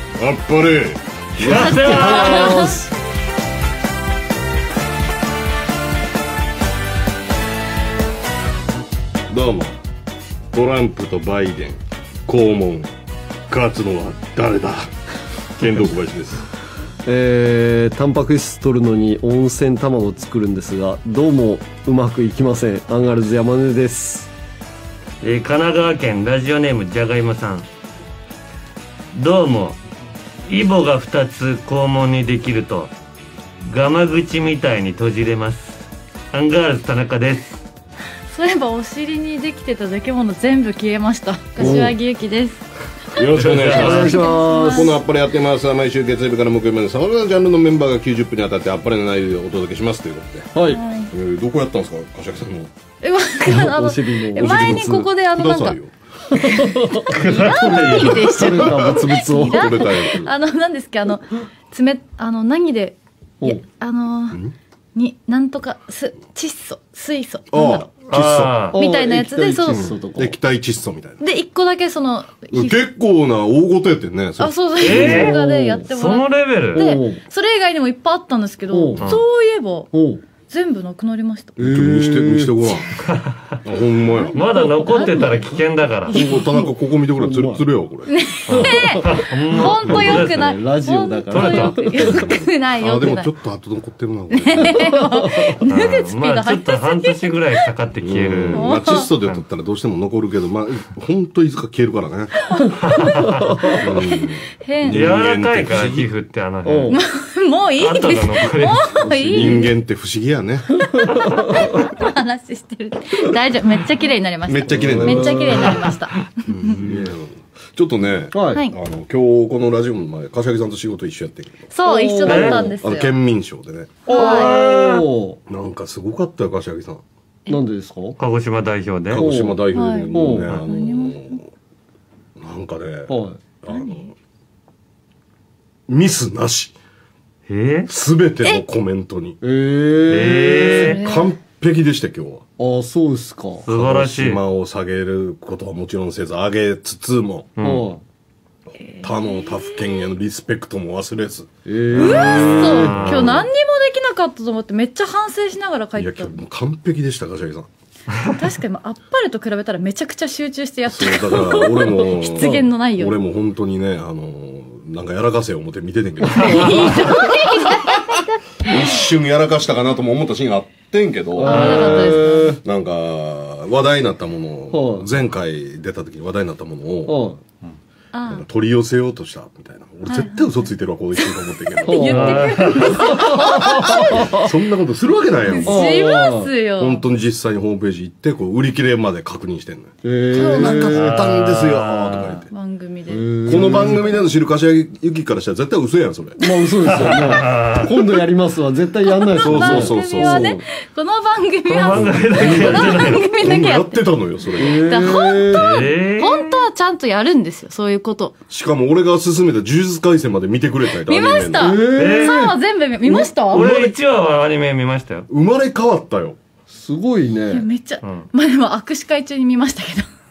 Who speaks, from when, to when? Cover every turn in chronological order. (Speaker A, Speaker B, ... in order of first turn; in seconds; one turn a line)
Speaker A: 0.2-1.0
Speaker B: 1.4-2.8
Speaker C: 1.4-2.9
Speaker D: 1.5-2.8
Speaker A: 9.3-9.8
Speaker A: 10.5-12.9
Speaker A: 13.5-14.9
Speaker A: 15.6-16.5
Speaker C: 17.0-24.3
Speaker B: 25.2-27.7
Speaker B: 29.1-29.8
Speaker B: 30.5-32.9
Speaker B: 33.6-37.6
Speaker D: 38.3-42.7
Speaker C: 41.6-42.0
Speaker A: 43.1-50.5
Speaker B: 43.2-44.2
Speaker C: 43.5-45.0
Speaker D: 43.8-45.0
Speaker C: 50.5-50.8
Speaker D: 50.7-51.1
Speaker A: 51.1-52.7
Speaker D: 53.0-55.8
Speaker C: 53.4-55.0
Speaker A: 54.4-55.9
Speaker C: 56.3-60.0
Speaker D: 56.3-64.4
Speaker B: 57.1-58.3
Speaker A: 57.8-60.3
Speaker D: 64.9-67.9
Speaker A: 67.5-68.7
Speaker B: 68.1-68.8
Speaker C: 68.7-70.3
Speaker D: 68.7-69.9
Speaker A: 69.7-71.2
Speaker D: 71.2-72.8
Speaker A: 72.5-75.3
Speaker D: 74.4-79.9
Speaker B: 74.8-75.4
Speaker C: 74.9-75.9
Speaker B: 75.9-77.0
Speaker C: 76.7-77.2
Speaker C: 78.7-79.0
Speaker C: 79.9-80.2
Speaker D: 80.5-81.6
Speaker C: 81.6-82.7
Speaker A: 81.6-83.0
Speaker B: 83.0-83.5
Speaker A: 83.6-84.5
Speaker D: 84.1-85.5
Speaker B: 84.3-86.1
Speaker D: 86.1-86.5
Speaker A: 86.1-88.1
Speaker C: 86.4-87.6
Speaker D: 88.1-93.3
Speaker B: 88.5-90.6
Speaker C: 88.5-89.0
Speaker C: 89.5-92.3
Speaker A: 89.8-90.2
Speaker B: 91.3-92.3
Speaker A: 92.8-95.0
Speaker D: 94.3-97.4
Speaker C: 94.9-95.5
Speaker B: 95.7-99.4
Speaker A: 98.0-102.3
Speaker D: 98.5-99.1
Speaker D: 102.5-102.8
Speaker B: 102.9-103.5
Speaker C: 103.4-103.8
Speaker A: 103.8-106.1
Speaker D: 103.8-105.1
Speaker B: 104.8-107.0
Speaker C: 106.6-107.0
Speaker D: 106.9-109.7
Speaker B: 107.8-109.5
Speaker C: 109.0-109.5
Speaker A: 109.3-110.8
Speaker C: 111.0-111.7
Speaker D: 111.2-116.8
Speaker A: 114.5-115.9
Speaker C: 114.7-115.8
Speaker A: 116.5-121.7
Speaker C: 116.8-117.2
Speaker C: 118.3-118.6
Speaker D: 121.7-123.1
Speaker C: 121.8-122.7
Speaker B: 122.2-122.7
Speaker A: 122.4-124.1
Speaker B: 124.0-125.1
Speaker D: 124.1-124.6
Speaker C: 124.1-125.4
Speaker A: 125.5-127.0
Speaker C: 127.5-128.2
Speaker B: 128.2-129.3
Speaker A: 129.1-131.4
Speaker C: 129.2-130.6
Speaker D: 129.7-131.4
Speaker A: 132.4-134.1
Speaker C: 133.1-133.4
Speaker D: 133.7-134.1
Speaker A: 135.9-136.7
Speaker B: 137.5-137.9
Speaker A: 137.9-139.4
Speaker C: 139.4-141.0
Speaker B: 140.1-141.0
Speaker D: 140.8-141.3
Speaker A: 140.9-142.4
Speaker C: 142.6-143.7
Speaker B: 143.7-144.4
Speaker A: 143.7-147.5
Speaker B: 147.6-147.9
Speaker C: 147.6-148.0
Speaker D: 148.9-150.0
Speaker A: 149.0-153.5
Speaker C: 151.7-153.3
Speaker D: 152.0-156.4
Speaker B: 152.2-153.3
Speaker A: 155.9-157.7
Speaker D: 158.2-163.2
Speaker A: 160.9-168.0
Speaker C: 162.0-162.6
Speaker C: 166.3-167.4
Speaker D: 166.3-169.0
Speaker A: 168.6-177.2
Speaker C: 171.3-172.6
Speaker D: 171.4-172.6
Speaker B: 171.4-172.1
Speaker C: 174.7-175.1
Speaker C: 177.1-177.4
Speaker D: 178.1-178.4
Speaker A: 178.3-182.4
Speaker D: 180.1-180.6
Speaker D: 181.2-184.5
Speaker C: 181.8-184.4
Speaker B: 182.0-183.3
Speaker A: 183.4-186.1
Speaker D: 185.5-187.0
Speaker C: 185.6-186.5
Speaker A: 186.8-192.5
Speaker C: 190.0-191.1
Speaker D: 190.3-190.9
Speaker B: 190.8-192.4
Speaker D: 192.5-193.9
Speaker C: 193.1-194.1
Speaker A: 193.4-196.4
Speaker C: 196.4-200.6
Speaker B: 196.8-198.0
Speaker D: 199.0-204.0
Speaker A: 199.4-200.5
Speaker B: 201.7-203.2
Speaker A: 201.9-205.2
Speaker C: 204.6-205.7
Speaker D: 204.7-208.3
Speaker B: 205.5-206.6
Speaker A: 208.5-211.8
Speaker D: 211.0-213.7
Speaker C: 211.6-213.4
Speaker B: 211.9-212.4
Speaker B: 213.5-215.3
Speaker A: 213.5-213.9
Speaker A: 215.3-216.4
Speaker C: 216.7-217.7
Speaker D: 217.5-220.1